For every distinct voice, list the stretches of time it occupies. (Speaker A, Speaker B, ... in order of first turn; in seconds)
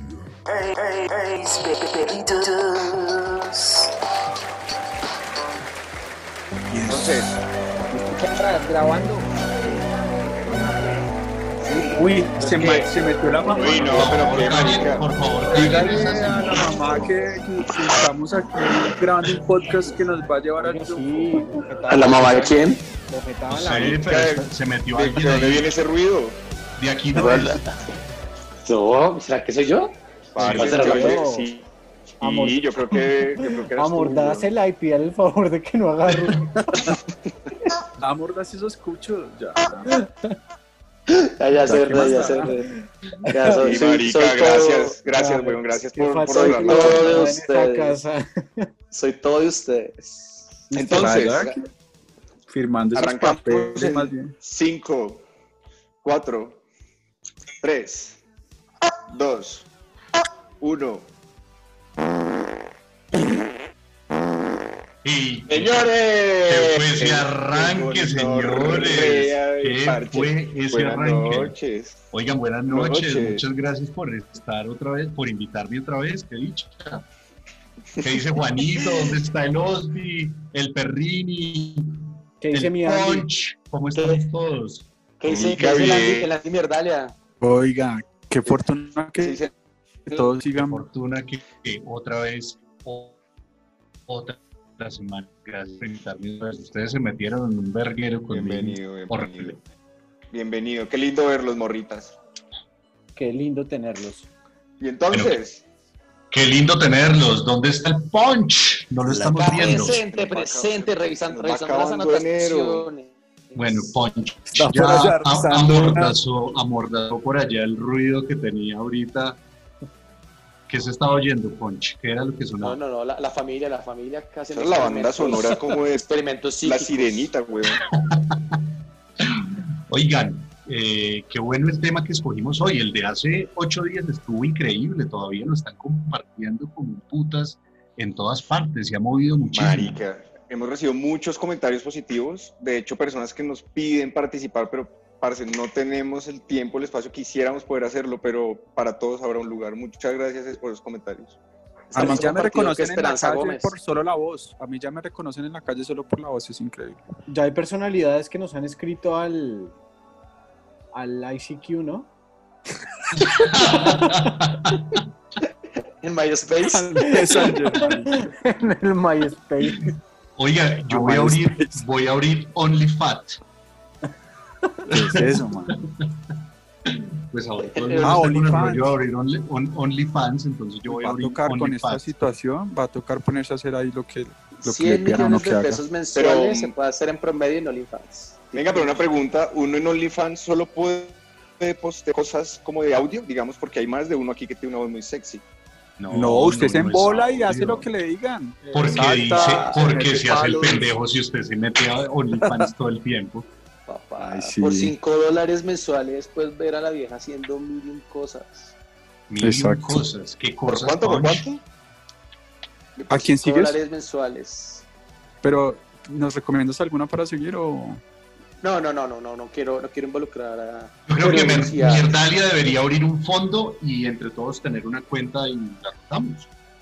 Speaker A: 0.5-3.9
Speaker B: 6.7-7.3, 11.9-14.2, 15.5-21.4, 38.0-39.9, 41.5-42.6, 50.7-51.6, 52.5-54.3, 87.4-89.4, 90.1-90.9, 114.5-116.2, 151.9-157.0, 166.9-168.3, 170.9-171.8, 174.9-175.8, 178.0-178.9, 180.9-185.8, 196.1-200.9, 202.4-202.7, 204.3-204.9, 209.4-210.0, 213.1-213.8, 215.4-218.0
Speaker C: 6.9-7.4, 12.4-12.9, 13.4-15.1, 24.0-26.4, 30.3-31.7, 32.2-34.5, 43.6-47.3, 50.7-51.6, 52.9-55.2, 56.0-56.6, 57.6-58.2, 59.1-59.7, 60.6-61.1, 65.5-72.0, 72.7-73.4, 78.7-79.1, 85.3-86.3, 89.2-89.5, 98.3-99.6, 100.3-102.2, 104.8-105.6, 109.7-112.9, 124.5-127.8, 139.5-151.4, 186.1-186.7, 188.6-195.4, 210.7-211.6
Speaker D: 8.1-9.3, 20.6-24.1, 30.7-31.5, 32.2-32.6, 33.4-36.5, 39.9-40.4, 43.3-43.6, 45.1-48.7, 82.4-83.3, 103.2-104.3, 157.3-159.8, 160.9-162.1, 163.4-164.2, 167.0-169.9
Speaker E: 13.8-17.1, 23.5-25.7, 26.8-27.7, 30.4-31.0, 36.1-36.3, 65.0-65.9, 66.4-71.5, 72.1-77.0, 78.0-85.5, 90.5-93.2, 94.1-99.6, 105.1-105.4, 106.3-110.0, 113.5-119.4, 120.7-122.8, 127.8-128.6, 129.2-140.0, 163.2-165.0, 170.4-173.4, 174.9-176.3, 176.9-182.1, 196.0-197.9, 198.7-203.5, 209.3-211.5, 221.1-226.5
Speaker F: 21.9-22.8, 27.1-27.8, 28.6-29.9, 30.5-31.2, 41.1-42.7, 43.2-45.0, 46.3-48.0, 48.9-50.0, 84.0-84.2, 85.2-87.1, 109.0-113.8, 122.6-127.3, 151.9-153.8, 166.0-167.3, 177.7-178.7, 184.6-189.0, 198.9-200.1, 203.9-208.8, 213.1-214.8, 218.6-222.2